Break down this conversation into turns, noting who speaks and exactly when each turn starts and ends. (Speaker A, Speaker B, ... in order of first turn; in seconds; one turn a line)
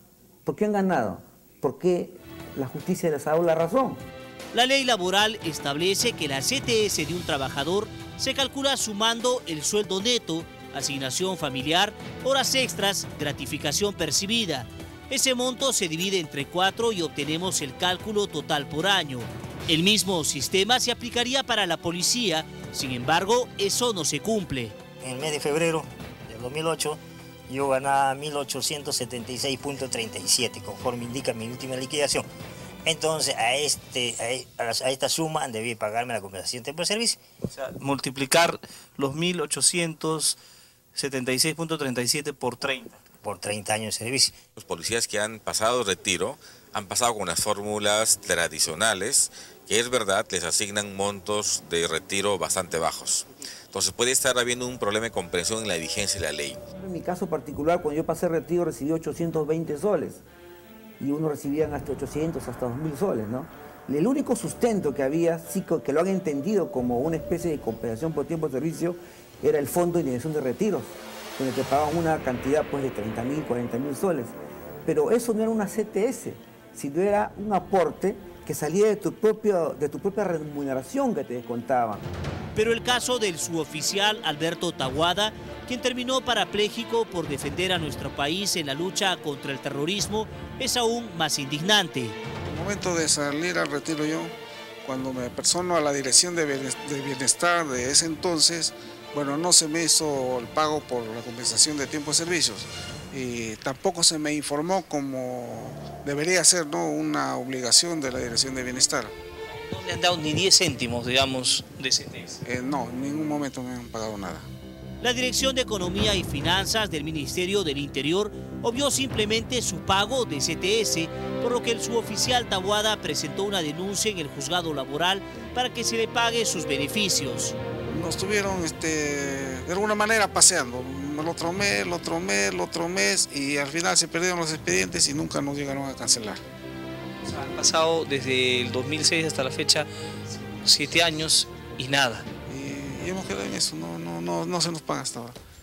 Speaker A: 0.4-4.0
Speaker B: 4.5-24.8
Speaker C: 25.0-32.3
Speaker C: 32.9-37.2
Speaker D: 37.5-40.4
Speaker D: 40.9-43.0
Speaker C: 43.1-44.4
Speaker E: 44.6-56.6
Speaker A: 56.8-60.2
Speaker A: 61.0-74.3
Speaker A: 74.8-82.1
Speaker B: 82.5-92.1
Speaker F: 92.4-94.3
Speaker F: 94.8-109.1
Speaker D: 109.6-112.4
Speaker F: 112.4-114.5
Speaker B: 115.0-127.5
Speaker F: 127.9-136.4
Speaker D: 137.2-139.9
Speaker D: 140.5-142.2
Speaker F: 142.5-145.3